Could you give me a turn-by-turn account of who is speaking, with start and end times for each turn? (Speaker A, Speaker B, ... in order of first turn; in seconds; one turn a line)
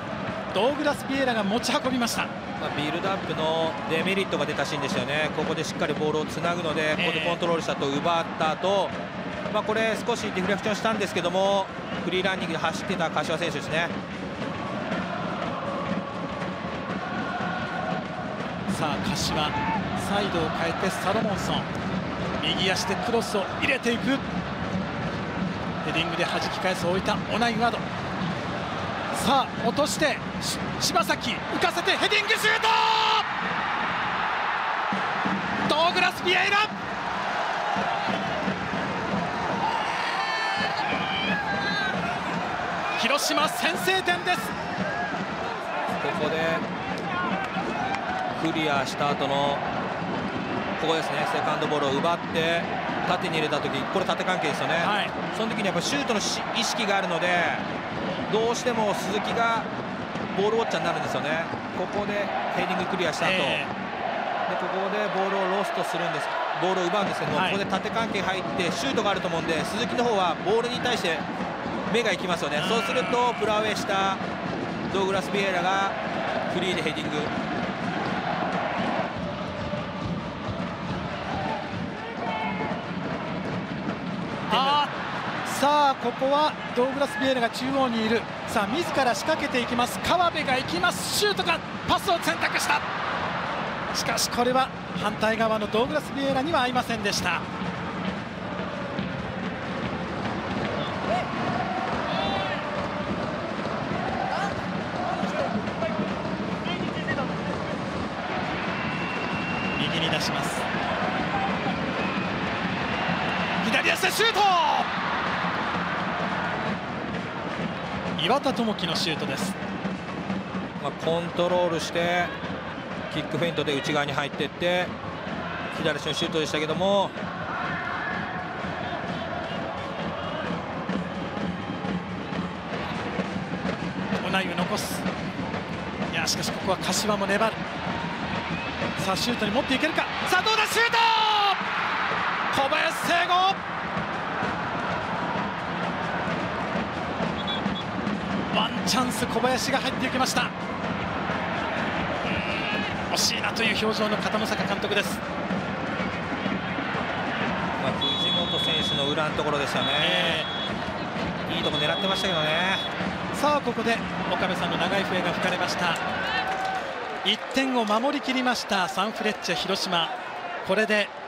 Speaker A: 0.5-2.3
Speaker B: 2.6-9.0
Speaker A: 7.0-7.4
Speaker B: 9.5-13.9
Speaker A: 18.7-21.7
Speaker A: 22.4-24.2
Speaker A: 25.8-27.9
Speaker A: 29.1-33.3
Speaker A: 35.7-36.7
Speaker A: 43.0-44.5
Speaker B: 46.0-46.6
Speaker B: 48.4-49.6
Speaker B: 50.8-57.7
Speaker A: 54.8-55.2
Speaker B: 58.3-59.7
Speaker B: 60.3-63.6
Speaker A: 63.2-63.7
Speaker B: 64.5-71.3
Speaker A: 67.3-67.6
Speaker B: 71.9-74.2
Speaker B: 74.9-76.0
Speaker B: 76.5-77.3
Speaker B: 84.5-84.9
Speaker A: 84.5-84.9
Speaker A: 85.5-92.8
Speaker A: 93.9-97.5
Speaker A: 109.8-110.7
Speaker A: 113.6-114.9
Speaker A: 118.2-119.6
Speaker B: 120.8-122.3
Speaker B: 123.1-124.9
Speaker B: 125.7-127.2
Speaker A: 134.2-135.1
Speaker A: 136.1-137.6
Speaker A: 139.0-141.6
Speaker A: 142.5-143.6
Speaker A: 148.5-150.5
Speaker A: 153.1-155.2
Speaker B: 157.8-160.5
Speaker A: 160.0-160.5
Speaker B: 161.5-162.8
Speaker A: 163.3-166.0
Speaker A: 167.2-171.1